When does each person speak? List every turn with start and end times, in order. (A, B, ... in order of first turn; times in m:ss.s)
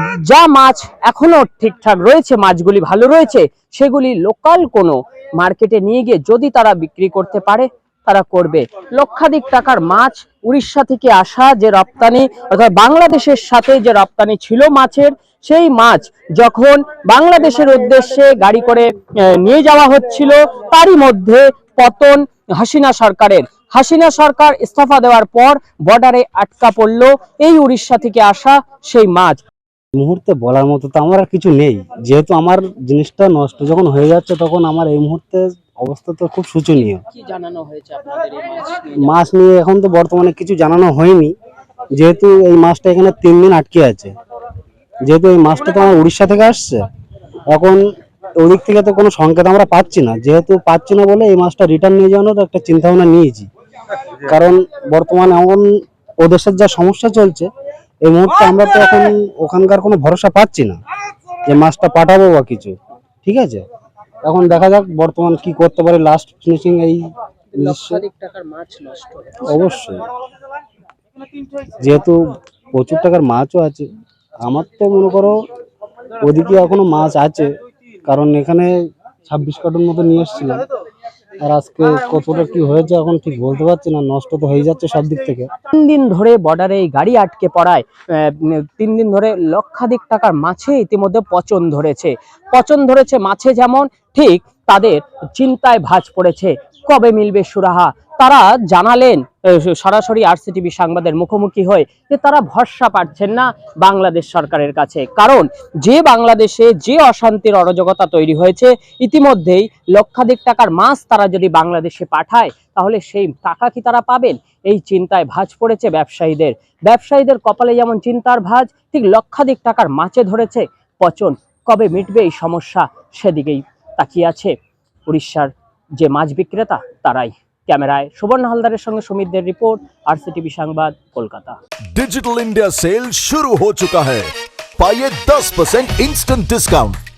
0:00.2-0:29.4 A
0:29.9-0:37.0 B
0:37.0-0:39.2 A
0:39.0-0:41.3 B
0:42.0-0:44.1 B
0:45.0-0:46.8 B
0:47.5-0:47.8 B
0:48.4-0:53.5 B
0:54.3-0:55.7 B
0:56.2-0:57.5 B
0:58.0-1:00.8 B
1:01.4-1:03.6 B
1:04.2-1:07.0 B
1:07.5-1:09.6 A
1:07.6-1:08.0 B
1:09.4-1:10.0 B
1:11.8-1:12.2 B
1:12.7-1:13.8 B
1:14.4-1:15.4 B
1:16.2-1:17.5 B
1:18.1-1:18.7 B
1:19.2-1:20.6 B
1:21.4-1:25.5 B
1:25.7-2:04.5 A
2:05.1-2:11.6 A
2:11.9-2:17.0 C